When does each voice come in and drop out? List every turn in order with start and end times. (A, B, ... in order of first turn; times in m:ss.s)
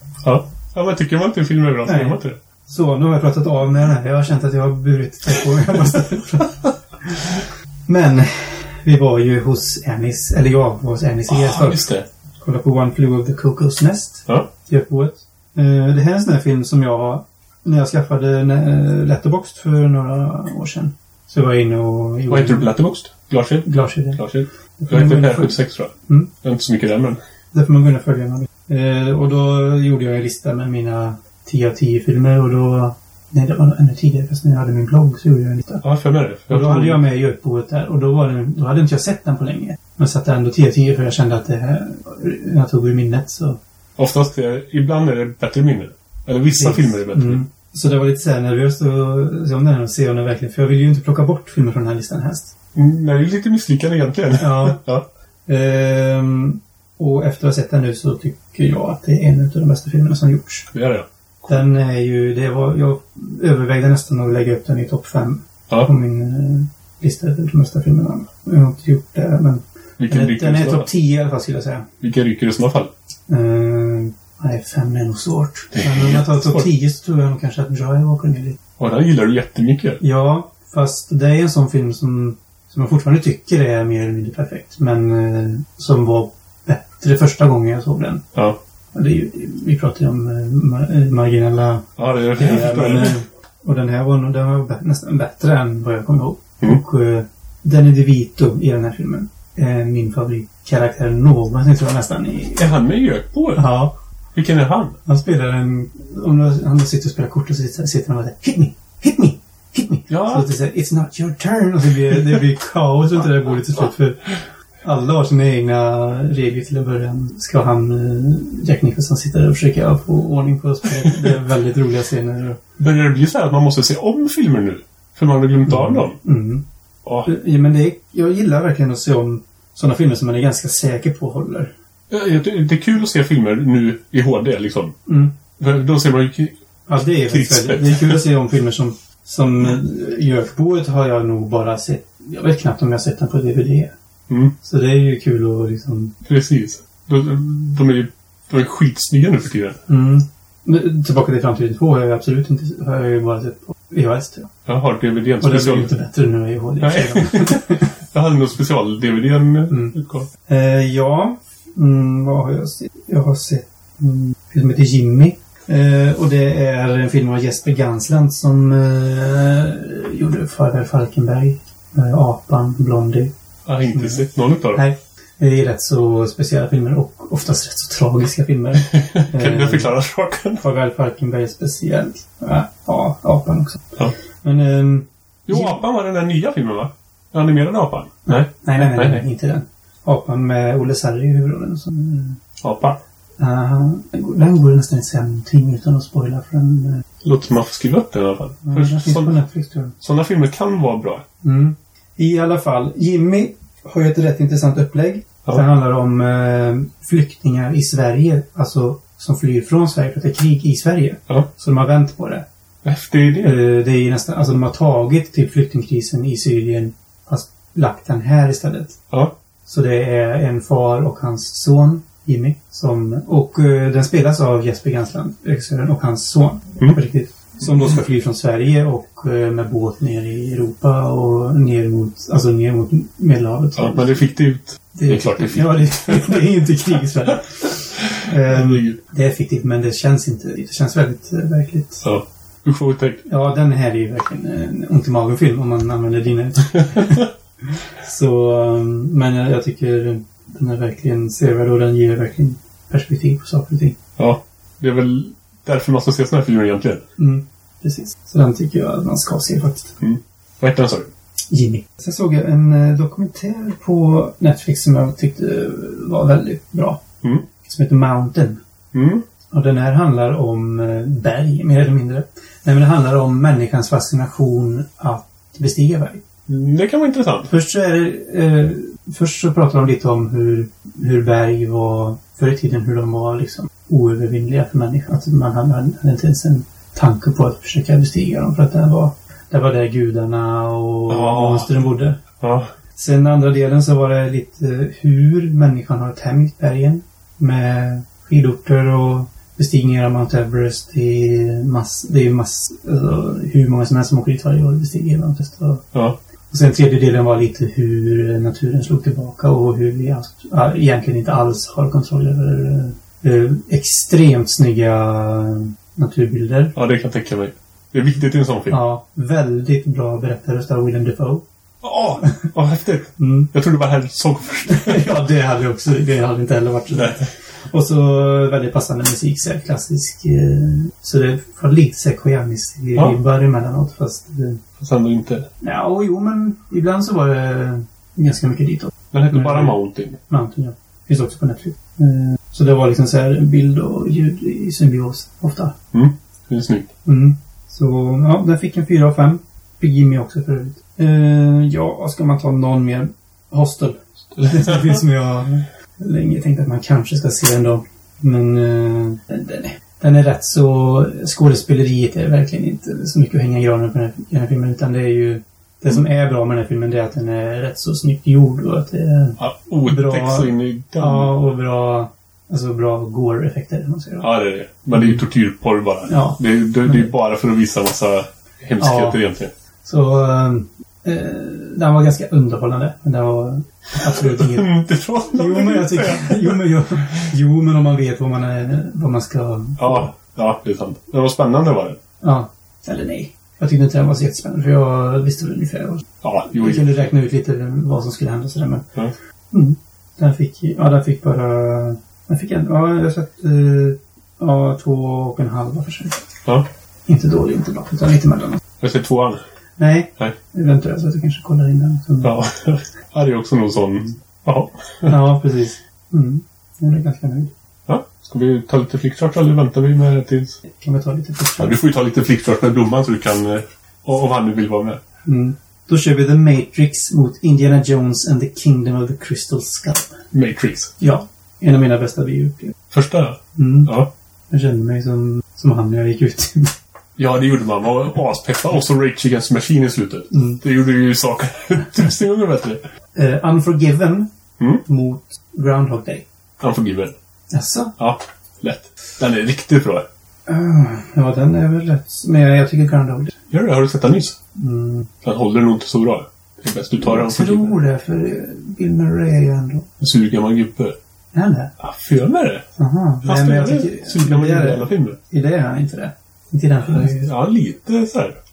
0:00.2-0:02.4 A
0:01.8-0:11.8 B
0:11.3-0:12.0 A
0:12.4-0:22.7 B
0:22.3-0:27.2 A
0:23.6-0:24.2 B
0:24.8-0:25.6 B
0:27.5-0:35.8 B
0:35.8-0:37.0 A
0:36.5-0:43.6 B
0:44.0-0:47.4 A
0:46.6-0:52.5 B
0:52.7-0:55.0 A
0:54.4-0:54.8 B
0:55.5-1:00.7 B
1:00.7-1:01.6 A
1:01.5-1:11.9 B
1:10.0-1:10.9 A
1:12.0-1:12.9 A
1:13.3-1:18.6 B
1:15.7-1:16.7 A
1:18.8-1:20.0 A
1:20.0-1:28.2 B
1:28.9-1:42.7 B
1:32.0-1:33.2 A
1:42.6-1:43.7 A
1:43.6-1:43.9 B
1:44.3-1:45.0 A
1:45.0-1:54.3 B
1:50.1-1:50.5 A
1:54.8-2:02.6 B
2:02.8-2:06.2 A
2:05.7-2:06.6 B
2:07.2-2:11.7 B
2:12.1-2:14.9 A
2:15.0-2:15.3 B
2:15.6-2:16.5 A
2:16.9-2:23.9 B
2:17.1-2:18.2 A
2:24.3-2:24.5 A
2:24.6-2:26.1 B
2:26.2-2:29.8 A
2:29.9-2:34.5 B
2:34.6-2:35.9 A
2:35.4-2:37.8 B
2:36.8-2:40.3 A
2:40.5-2:53.3 B
2:53.6-2:54.8 A
2:53.9-2:59.9 B
2:58.8-3:00.6 A
3:00.6-3:03.8 B
3:04.4-3:05.8 B
3:05.5-3:09.2 A
3:08.3-3:12.4 B
3:12.6-3:13.0 A
3:13.4-3:17.0 B
3:17.2-3:19.4 A
3:18.6-3:19.9 B
3:20.0-3:21.2 A
3:21.4-3:32.4 B
3:32.8-3:33.6 A
3:33.4-3:39.0 B
3:39.6-3:54.2 B
3:53.8-3:56.4 A
3:54.9-4:02.0 B
3:58.0-3:59.0 A
4:02.0-4:03.2 A
4:03.2-4:07.3 B
4:06.8-4:07.3 A
4:08.0-4:14.0 B
4:14.2-4:17.0 A
4:17.2-4:19.9 B
4:20.0-4:21.1 A
4:21.5-4:27.0 B
4:27.6-4:28.6 B
4:28.9-4:29.2 A
4:29.5-4:36.2 B
4:36.5-4:37.5 A
4:37.5-4:52.2 B
4:51.1-4:51.7 A
4:52.4-4:52.7 A
4:53.0-5:05.8 B
5:06.5-5:16.7 B
5:16.7-5:18.8 A
5:18.7-5:21.4 B
5:21.8-5:25.2 A
5:23.2-5:23.5 B
5:24.7-5:34.6 B
5:26.9-5:27.3 A
5:34.8-5:35.5 A
5:35.6-5:39.8 B
5:39.1-5:40.2 A
5:40.3-5:45.7 B
5:45.9-5:46.9 A
5:47.0-6:14.3 B
5:54.4-5:54.8 A
6:09.4-6:11.3 A
6:14.2-6:19.5 A
6:16.1-6:17.1 B
6:18.8-6:19.2 B
6:19.8-6:24.7 B
6:24.1-6:27.3 A
6:25.3-6:30.1 B
6:29.8-6:32.0 A
6:32.2-6:38.9 B
6:36.2-6:37.0 A
6:39.5-6:46.2 B
6:47.1-6:48.6 B
6:48.8-6:49.4 A
6:49.8-6:52.3 B
6:52.2-6:55.2 A
6:55.0-6:57.5 B
6:57.9-7:00.6 A
7:00.8-7:01.8 B
7:01.6-7:05.0 A
7:05.2-7:10.2 B
7:10.3-7:10.9 A
7:11.0-7:12.7 B
7:12.9-7:14.1 A
7:13.6-7:13.9 B
7:14.5-7:16.7 B
7:17.2-7:22.8 A
7:20.3-7:20.6 B
7:23.1-7:24.3 B
7:24.8-7:26.2 B
7:26.6-7:27.1 A
7:27.5-7:27.9 B
7:28.0-7:30.0 A
7:30.5-7:33.3 B
7:33.5-7:34.4 A
7:34.6-7:35.1 B
7:35.2-7:37.8 A
7:37.0-7:39.9 B
7:40.0-7:41.0 A
7:41.3-7:41.7 B
7:41.8-7:42.6 A
7:42.8-7:47.3 B
7:43.2-7:45.2 A
7:46.8-7:48.4 A